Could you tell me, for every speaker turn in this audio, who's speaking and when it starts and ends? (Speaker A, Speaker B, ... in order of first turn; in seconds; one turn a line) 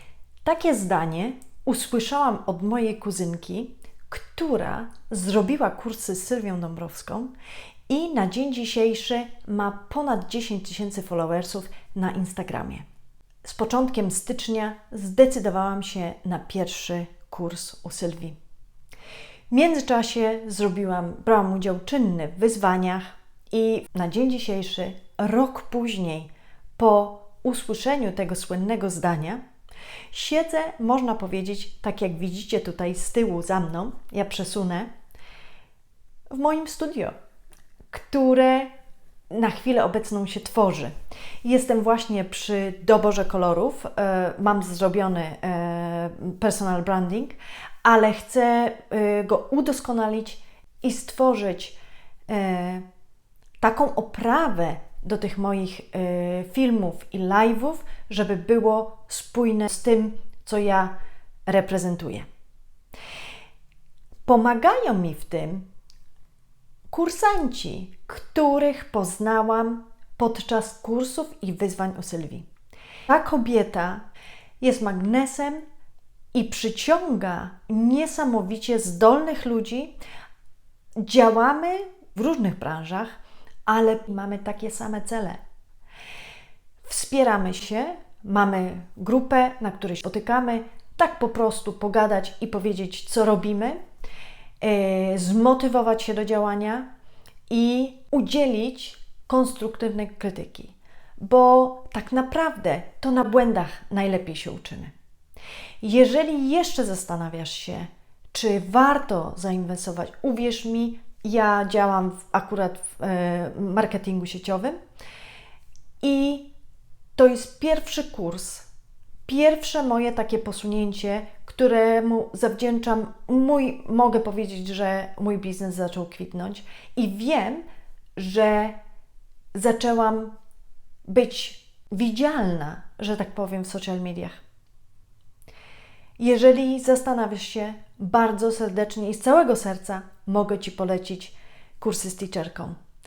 Speaker A: 0.4-7.3
Speaker A: 7.9-12.8
Speaker A: 13.4-18.4
Speaker A: 19.5-29.4
Speaker A: 30.1-34.9
Speaker A: 36.3-37.1
Speaker A: 37.9-38.7
Speaker A: 39.3-51.8
Speaker A: 52.3-52.8
Speaker A: 53.6-60.9
Speaker A: 61.5-62.2
Speaker A: 64.2-65.6
Speaker A: 66.9-72.5
Speaker A: 73.1-74.0
Speaker A: 74.6-75.6
Speaker A: 76.3-79.9
Speaker A: 81.0-85.4
Speaker A: 86.8-93.8
Speaker A: 94.6-96.9
Speaker A: 97.5-104.9
Speaker A: 105.8-114.8
Speaker A: 116.0-116.5
Speaker A: 117.2-118.7
Speaker A: 119.3-127.6
Speaker A: 128.2-128.8
Speaker A: 129.5-130.3
Speaker A: 131.1-134.4
Speaker A: 136.2-142.8